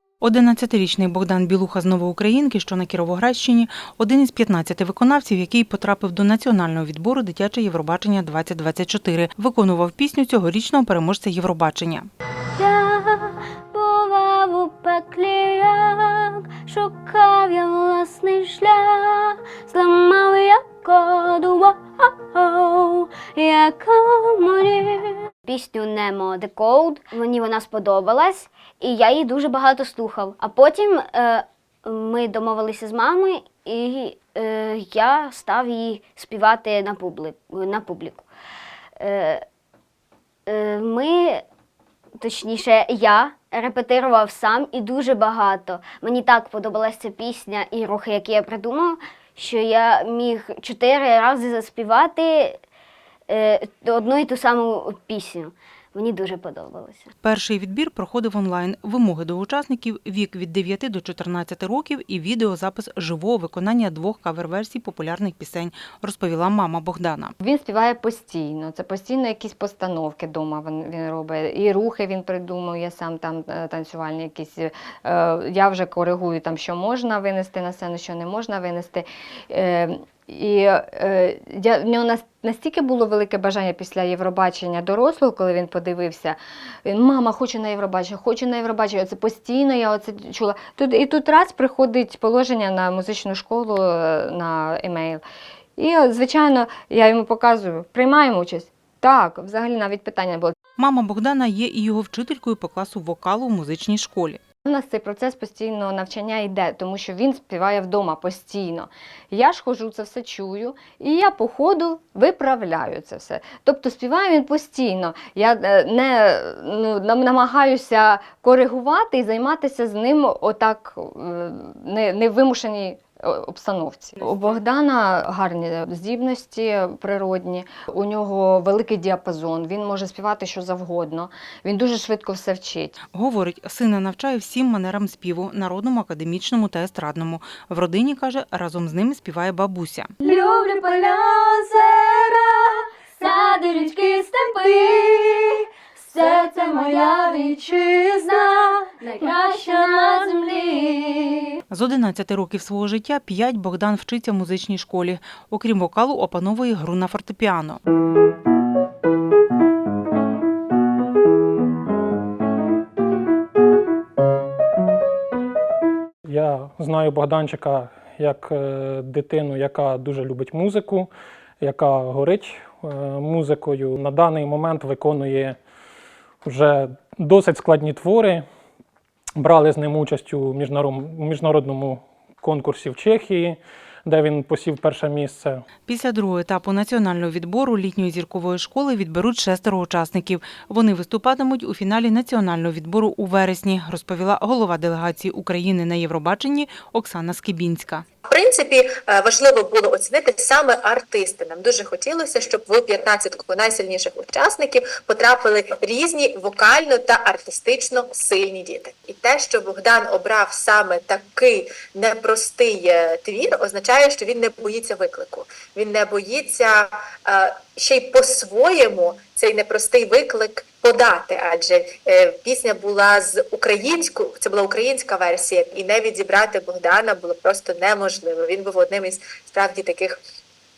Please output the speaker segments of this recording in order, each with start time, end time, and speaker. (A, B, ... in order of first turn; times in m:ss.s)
0:00.2-0:12.1 A
0:12.5-0:38.2 B
0:39.0-0:39.4 B
0:40.5-0:41.4 B
0:42.2-0:52.6 B
0:53.3-0:57.1 B
0:57.2-1:07.3 A
1:07.4-1:35.2 C
1:35.8-1:40.6 C
1:40.8-1:44.4 A
1:44.7-2:13.0 C
2:13.1-2:20.1 A
2:20.2-2:22.3 B
2:23.2-2:25.4 B
2:26.1-2:31.4 B
2:31.7-2:37.8 A
2:46.2-2:51.1 D
2:51.6-2:55.6 D
2:56.4-2:58.4 D
2:59.4-3:05.6 D
3:05.9-3:18.0 A
3:18.3-3:50.2 E